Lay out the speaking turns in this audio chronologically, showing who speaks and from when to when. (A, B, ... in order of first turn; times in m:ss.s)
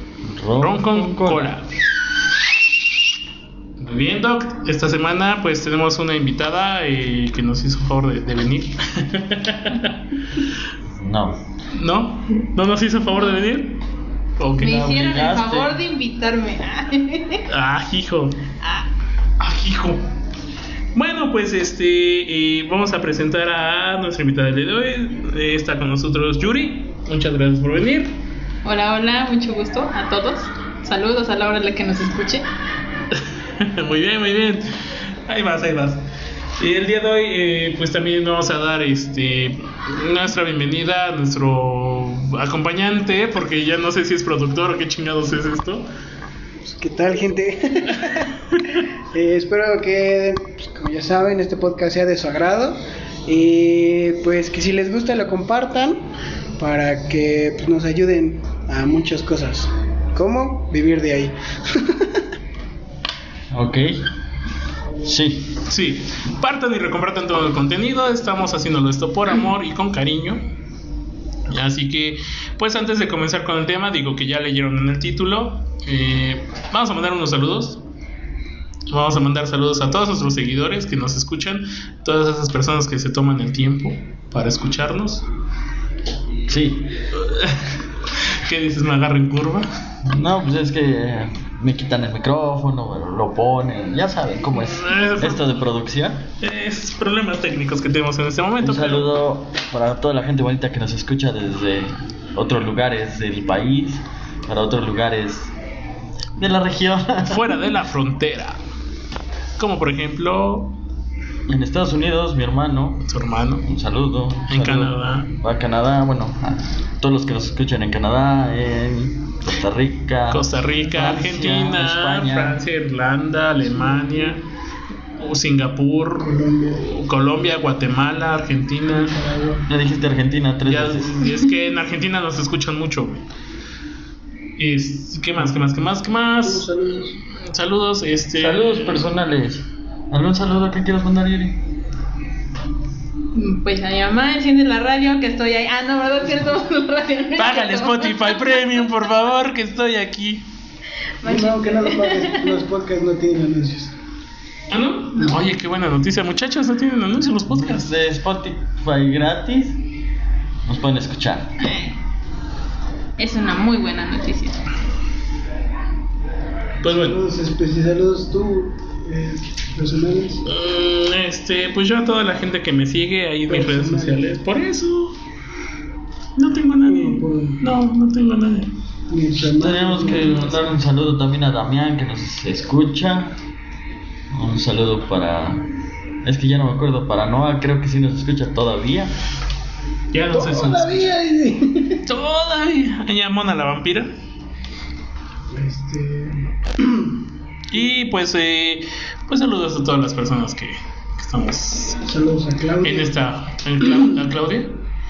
0:00.2-0:01.5 A
0:00.6-0:01.7 B
0:03.8-0:10.0 B
0:10.9-0:11.4 A
0:11.7-0:13.8 B
0:14.4-0:14.8 B
0:14.6-0:15.8 A
0:14.6-0:17.4 C
0:17.5-0:18.4 B
0:18.6-0:18.9 C
0:19.4-0:20.0 B
0:20.9-0:28.1 B
0:28.6-0:32.4 C
0:33.1-0:36.0 B
0:36.6-0:45.8 B
0:46.7-0:48.4 D
0:48.5-0:48.8 B
0:49.1-0:56.0 D
0:56.6-1:02.2 D
1:03.5-1:04.0 A
1:05.0-1:05.5 A
1:05.7-1:10.4 B
1:11.5-1:17.8 B
1:18.9-1:25.2 B
1:26.5-1:26.9 A
1:27.2-1:29.7 B
1:30.0-1:36.3 A
1:34.6-1:35.6 B
1:36.4-1:39.2 B
1:38.6-1:45.5 A
1:46.4-1:47.5 A
1:47.2-1:48.6 B
1:49.6-1:50.8 B
1:51.5-1:53.0 A
1:53.0-1:53.6 B
1:53.6-2:02.6 A
1:54.5-1:55.3 B
2:00.3-2:04.4 B
2:03.7-2:04.4 D
2:05.2-2:09.2 B
2:06.2-2:06.8 D
2:08.9-2:09.7 D
2:09.7-2:11.3 A
2:10.7-2:13.2 B
2:14.6-2:16.7 B
2:16.4-2:17.2 D
2:17.4-2:18.9 B
2:18.4-2:21.6 A
2:23.3-2:29.0 C
2:27.4-2:30.4 B
2:31.2-2:32.6 C
2:31.2-2:33.9 D
2:34.7-2:37.9 B
2:37.5-2:39.8 A
2:40.6-2:41.5 A
2:41.6-2:41.9 C
2:43.2-2:44.6 C
2:46.8-2:47.2 B
2:46.9-2:50.4 D
2:50.4-2:55.2 B
2:53.5-2:54.3 D
2:56.4-2:58.7 B
2:56.9-2:57.6 D
2:59.1-3:00.8 D
2:59.6-3:03.4 A
3:04.3-3:05.6 A
3:06.2-3:09.1 A
3:10.1-3:11.1 B
3:10.3-3:12.0 D
3:12.1-3:14.1 B
3:15.5-3:17.2 D
3:17.7-3:22.0 B
3:22.0-3:23.1 D
3:22.8-3:24.8 B